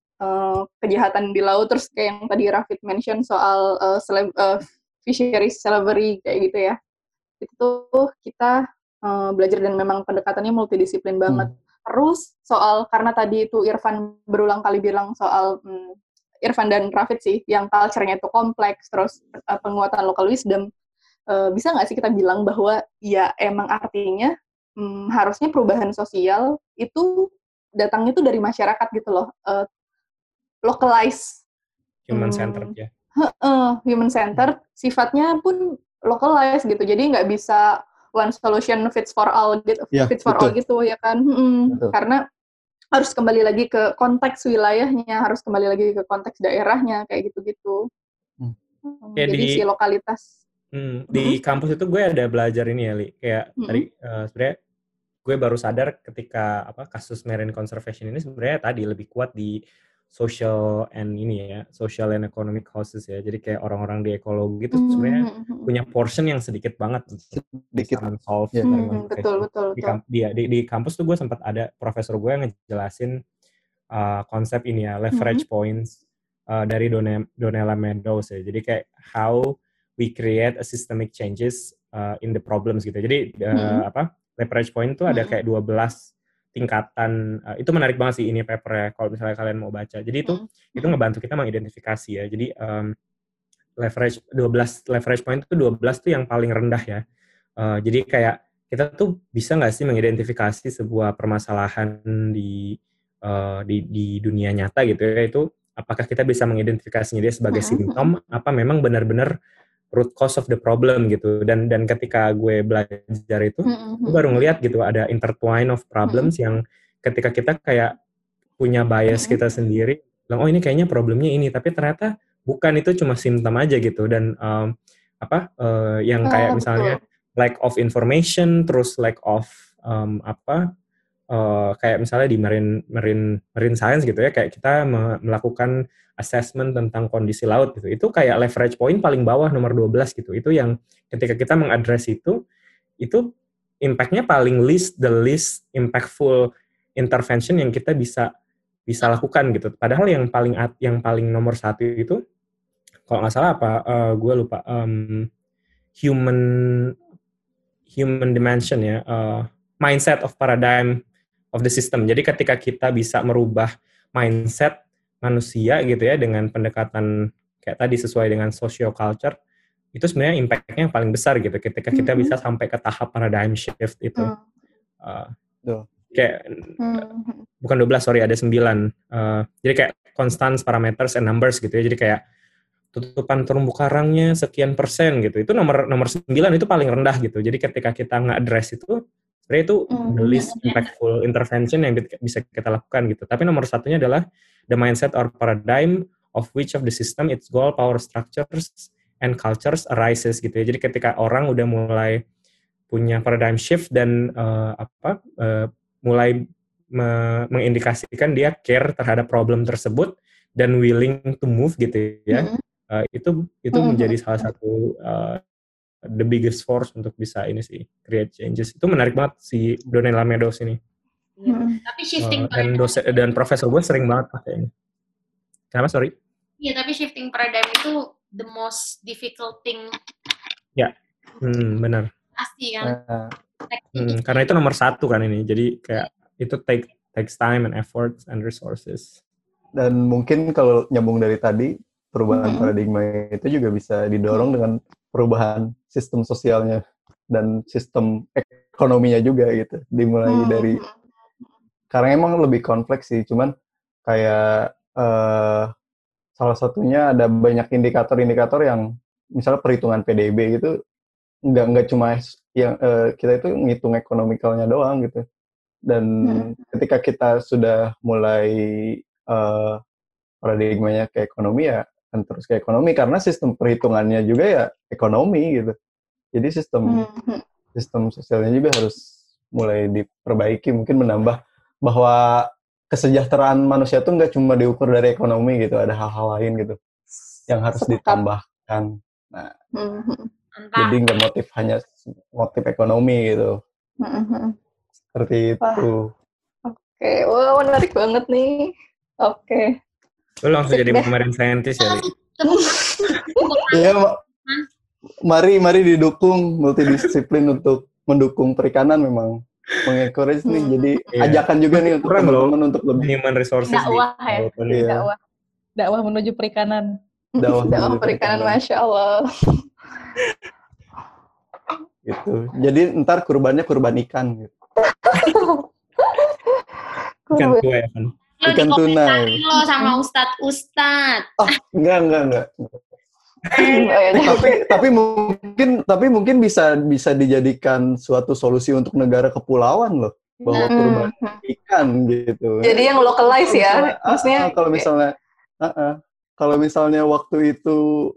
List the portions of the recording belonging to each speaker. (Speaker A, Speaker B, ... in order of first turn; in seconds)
Speaker A: 0.2-6.8, 7.4-20.7, 21.3-29.7, 30.6-31.4, 32.1-42.2, 43.0-47.9, 48.9-50.3, 64.7-65.7, 68.6-70.0, 75.1-75.4, 83.5-83.8, 85.1-85.4, 90.3-90.9, 107.5-108.1, 113.7-114.4, 116.0-116.3, 119.1-119.4, 126.3-127.0, 171.9-172.3, 174.2-174.4, 176.8-177.5, 189.9-190.6, 212.3-212.6, 213.7-214.2, 221.5-221.8, 242.3-242.7, 250.3-250.9, 266.2-266.5, 276.9-277.4, 287.8-288.2, 289.8-290.3, 294.0-294.6, 295.6-295.9, 296.7-298.7, 299.2-299.7, 300.7-301.1, 302.4-303.4, 310.5-311.1, 317.4-319.2, 324.9-326.4, 327.3-327.6, 333.5-334.8, 340.7-341.4, 342.6-344.9
Speaker B: 32.1-32.9, 49.2-49.6, 50.7-54.6, 55.2-59.6, 60.1-73.2, 73.9-93.0, 93.8-97.0, 97.6-109.3, 109.9-117.9, 118.6-130.6, 131.3-142.4, 143.0-143.3, 143.8-148.3, 148.9-152.2, 153.1-155.3, 156.0-156.9, 157.9-161.0, 161.5-169.4, 169.9-174.3, 175.0-175.3, 176.1-177.0, 177.6-182.2, 182.9-202.2, 202.9-215.4, 216.1-220.8, 222.2-224.7, 225.7-226.2, 230.8-232.1, 233.9-239.2, 300.4-302.1, 311.1-314.8, 327.4-328.1
Speaker C: 39.9-40.5, 67.3-69.0, 232.8-233.3, 239.8-250.8, 251.9-253.5, 254.1-255.7, 256.4-258.8, 259.4-260.7, 261.5-265.2, 265.9-269.8, 270.4-275.7, 276.4-277.0, 277.8-279.0, 279.5-286.8, 287.5-289.5, 290.8-293.6, 295.1-296.1, 303.7-304.2, 305.3-313.1, 314.7-315.1, 317.4-318.6, 322.1-324.5, 328.4-329.4, 331.4-332.8, 333.5-345.1, 345.6-347.8
Speaker D: 221.4-223.2, 226.6-229.9, 232.4-233.0, 233.7-234.5, 290.6-291.0, 301.8-302.7, 303.3-304.7, 328.4-331.3, 340.4-340.7
Speaker E: 313.7-315.2, 315.8-317.0